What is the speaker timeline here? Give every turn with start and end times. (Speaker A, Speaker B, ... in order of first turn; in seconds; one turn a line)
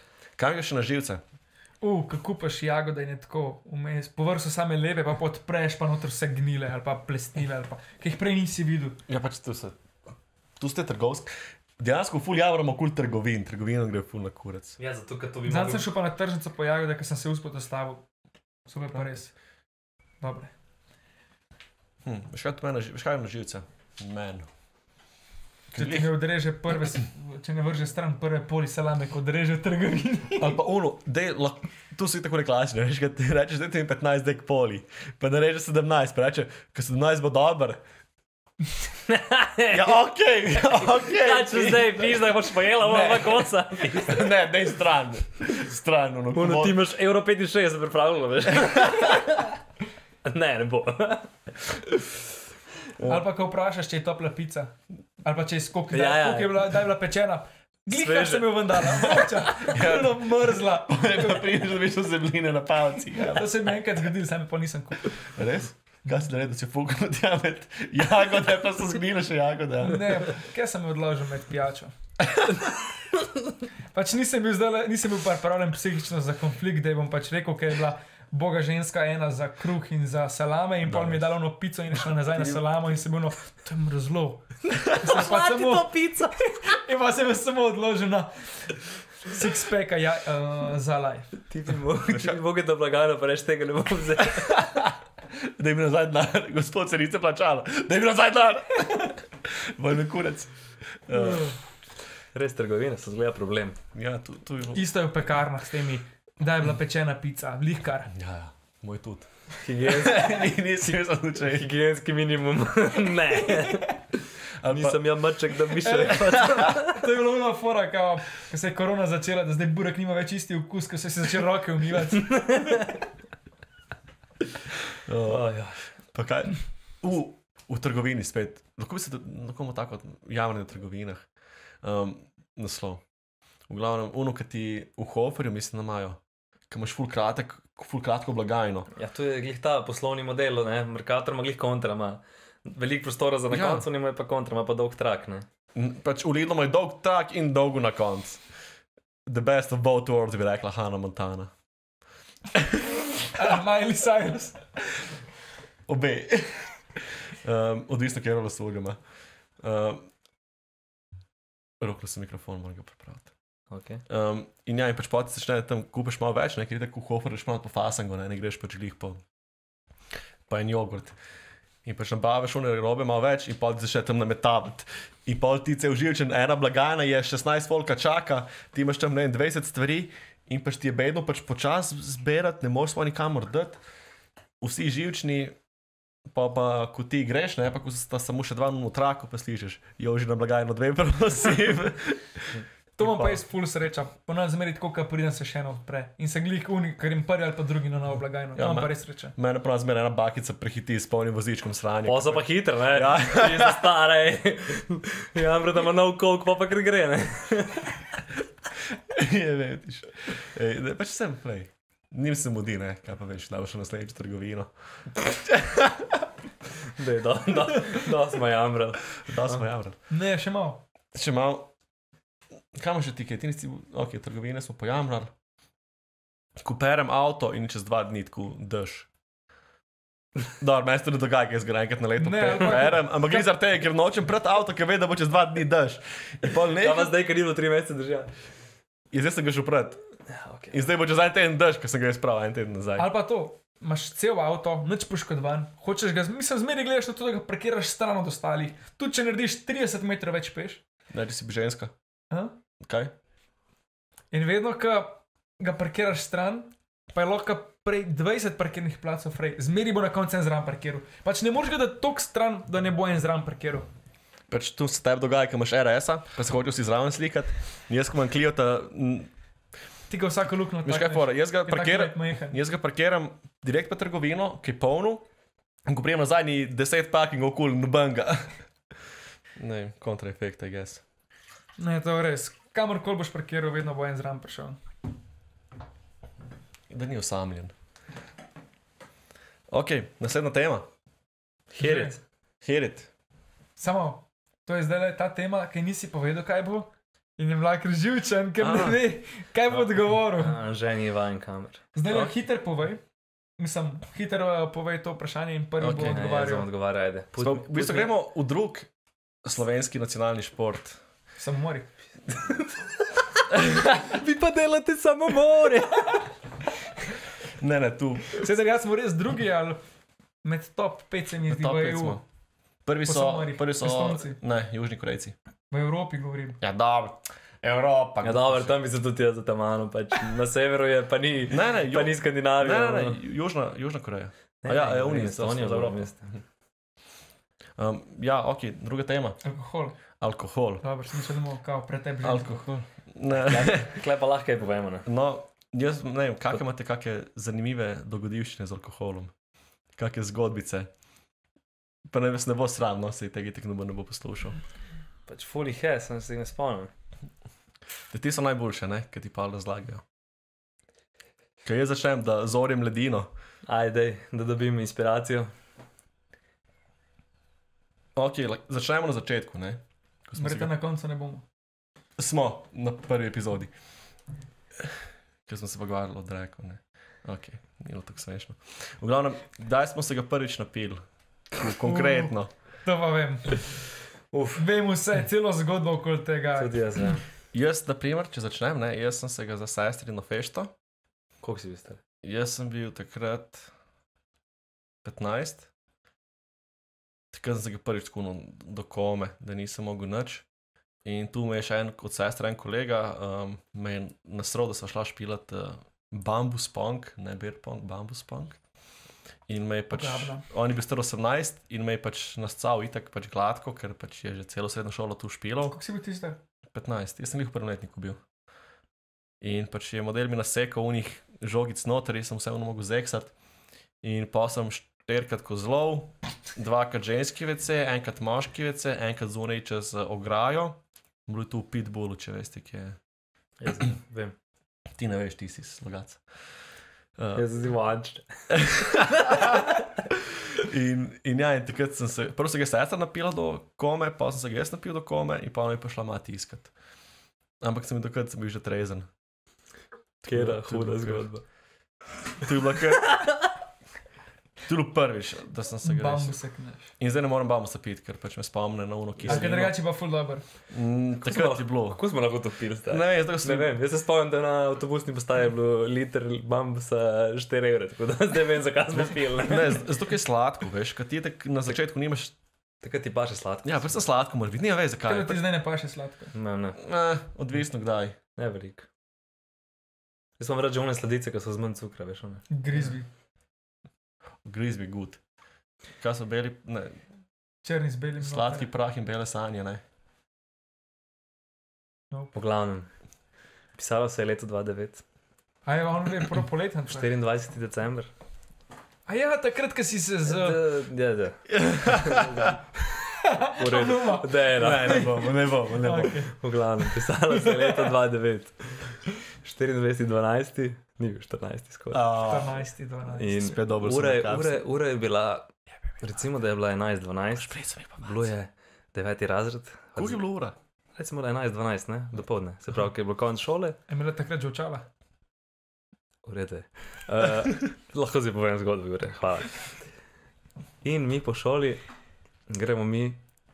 Speaker A: 0.4-1.2
Speaker B: 1.8-9.0
Speaker A: 9.1-9.8
Speaker A: 10.6-14.8
Speaker C: 14.8-15.9
Speaker B: 15.4-18.1
Speaker B: 18.6-19.3
Speaker B: 20.2-20.5
Speaker A: 22.0-24.5
Speaker A: 25.7-26.2
Speaker B: 25.8-30.6
Speaker A: 30.4-37.8
Speaker C: 39.1-39.8
Speaker A: 39.7-42.3
Speaker C: 40.7-44.3
Speaker A: 42.8-46.8
Speaker C: 46.3-49.6
Speaker A: 48.6-49.1
Speaker C: 50.2-52.2
Speaker A: 53.0-53.2
Speaker B: 53.0-61.4
Speaker C: 55.9-56.8
Speaker C: 57.9-59.0
Speaker A: 59.6-63.6
Speaker B: 63.2-65.2
Speaker A: 65.3-70.1
Speaker B: 69.8-71.9
Speaker B: 73.9-85.9
Speaker A: 80.8-81.3
Speaker C: 84.7-86.6
Speaker B: 86.6-91.4
Speaker C: 91.5-94.7
Speaker A: 92.1-92.4
Speaker A: 94.4-101.5
Speaker B: 101.1-101.5
Speaker C: 102.3-103.8
Speaker A: 103.9-104.8
Speaker B: 104.7-108.1
Speaker A: 108.1-109.3
Speaker C: 109.6-114.1
Speaker A: 109.8-111.7
Speaker A: 114.6-115.0
Speaker C: 114.7-117.0
Speaker B: 115.8-122.9
Speaker A: 116.4-116.7
Speaker A: 125.0-131.3
Speaker C: 125.2-125.8
Speaker A: 131.8-133.0
Speaker A: 133.7-138.9
Speaker C: 138.9-145.4
Speaker A: 143.5-143.8
Speaker A: 145.7-148.4
Speaker A: 149.2-151.5
Speaker A: 152.5-153.0
Speaker B: 153.3-154.7
Speaker A: 155.9-160.1
Speaker A: 161.8-163.3
Speaker C: 163.7-164.0
Speaker A: 164.1-169.2
Speaker A: 170.5-171.2
Speaker A: 171.8-183.8
Speaker A: 184.6-185.6
Speaker A: 186.3-193.4
Speaker B: 193.0-199.3
Speaker A: 198.6-203.9
Speaker C: 202.1-208.2
Speaker A: 208.9-216.2
Speaker C: 216.9-219.6
Speaker A: 219.2-219.9
Speaker B: 220.1-220.8
Speaker A: 221.1-221.7
Speaker A: 222.7-225.3
Speaker A: 226.6-229.1
Speaker A: 230.5-237.1
Speaker B: 232.2-233.5
Speaker C: 236.8-238.3
Speaker A: 239.1-240.0
Speaker C: 240.3-240.8
Speaker A: 240.7-243.1
Speaker B: 243.0-250.8
Speaker A: 251.1-251.9
Speaker B: 252.3-252.6
Speaker A: 252.8-253.1
Speaker B: 254.3-263.9
Speaker A: 264.5-269.3
Speaker B: 270.1-272.6
Speaker A: 270.8-275.2
Speaker A: 275.9-278.5
Speaker A: 279.6-281.0
Speaker B: 281.8-284.8
Speaker A: 286.9-287.7
Speaker A: 289.7-290.9
Speaker C: 291.7-292.2
Speaker B: 291.8-292.1
Speaker A: 292.6-293.1
Speaker B: 293.8-300.6
Speaker A: 298.6-299.0
Speaker C: 299.7-301.8
Speaker B: 301.9-303.0
Speaker A: 302.1-302.3
Speaker B: 303.6-306.7
Speaker A: 305.8-306.2
Speaker C: 306.1-308.1
Speaker A: 307.4-308.9
Speaker A: 309.4-311.0
Speaker B: 311.4-311.9
Speaker C: 312.3-316.2
Speaker A: 313.6-314.0
Speaker A: 317.6-318.4
Speaker B: 318.4-319.8
Speaker B: 320.4-322.2
Speaker A: 321.5-322.2
Speaker A: 322.8-325.3
Speaker B: 323.0-324.4
Speaker B: 325.7-326.6
Speaker A: 326.6-328.7
Speaker C: 328.2-333.2
Speaker A: 331.5-336.1
Speaker C: 334.6-336.4
Speaker A: 337.8-339.4
Speaker B: 339.4-339.9
Speaker A: 340.2-340.8
Speaker B: 340.8-342.6
Speaker A: 342.2-344.0
Speaker C: 343.4-345.1
Speaker A: 345.0-349.3
Speaker A: 349.9-350.9
Speaker A: 352.1-354.6
Speaker C: 355.3-356.9
Speaker A: 358.1-360.0
Speaker A: 361.6-363.3
Speaker C: 363.6-365.5
Speaker A: 368.1-370.7
Speaker B: 370.4-371.4
Speaker A: 372.2-373.7
Speaker A: 374.8-382.5
Speaker B: 381.8-382.3
Speaker B: 382.8-383.8
Speaker C: 384.3-384.6
Speaker B: 384.6-386.8
Speaker C: 386.6-387.2
Speaker A: 387.5-390.7
Speaker C: 391.4-392.0
Speaker A: 392.2-393.7
Speaker A: 395.0-395.7
Speaker A: 397.3-400.5
Speaker A: 401.0-408.6
Speaker A: 409.5-415.8
Speaker B: 409.9-410.4
Speaker B: 415.6-416.4
Speaker A: 416.7-418.2
Speaker A: 419.4-423.3
Speaker A: 424.0-433.0
Speaker C: 433.6-434.3
Speaker A: 434.9-436.2
Speaker A: 437.2-437.4
Speaker C: 437.3-439.6
Speaker A: 438.5-446.7
Speaker A: 447.6-449.1
Speaker A: 450.2-451.3
Speaker C: 450.2-451.4
Speaker A: 452.4-453.2
Speaker C: 453.0-453.5
Speaker A: 454.6-456.4
Speaker B: 455.8-456.9
Speaker A: 457.0-459.8
Speaker C: 459.2-459.5
Speaker B: 459.3-460.4
Speaker A: 460.7-462.0
Speaker C: 461.2-469.8
Speaker A: 462.9-463.7
Speaker A: 469.0-472.3
Speaker C: 472.8-473.9
Speaker A: 473.6-475.4
Speaker B: 475.1-476.3
Speaker C: 476.3-476.8
Speaker A: 476.8-478.1
Speaker C: 478.4-478.9
Speaker C: 480.4-482.9
Speaker B: 482.5-483.1
Speaker A: 484.4-485.2
Speaker A: 486.0-487.0
Speaker B: 487.6-488.7
Speaker A: 488.2-489.8
Speaker C: 492.3-492.9
Speaker C: 493.7-495.0
Speaker B: 495.6-497.1
Speaker C: 496.9-498.1
Speaker B: 499.1-500.6
Speaker C: 500.2-502.5
Speaker A: 501.5-502.5
Speaker B: 503.2-505.3
Speaker C: 503.4-505.2
Speaker A: 504.6-506.2
Speaker B: 505.8-506.3
Speaker C: 506.2-512.1
Speaker B: 507.6-507.8
Speaker A: 511.9-512.6
Speaker B: 512.2-513.3
Speaker C: 513.2-520.2
Speaker A: 513.3-514.6
Speaker A: 517.4-518.3
Speaker A: 520.0-520.5
Speaker C: 521.0-523.8
Speaker B: 523.9-524.9
Speaker C: 526.2-529.9
Speaker C: 530.8-531.8
Speaker C: 532.5-533.2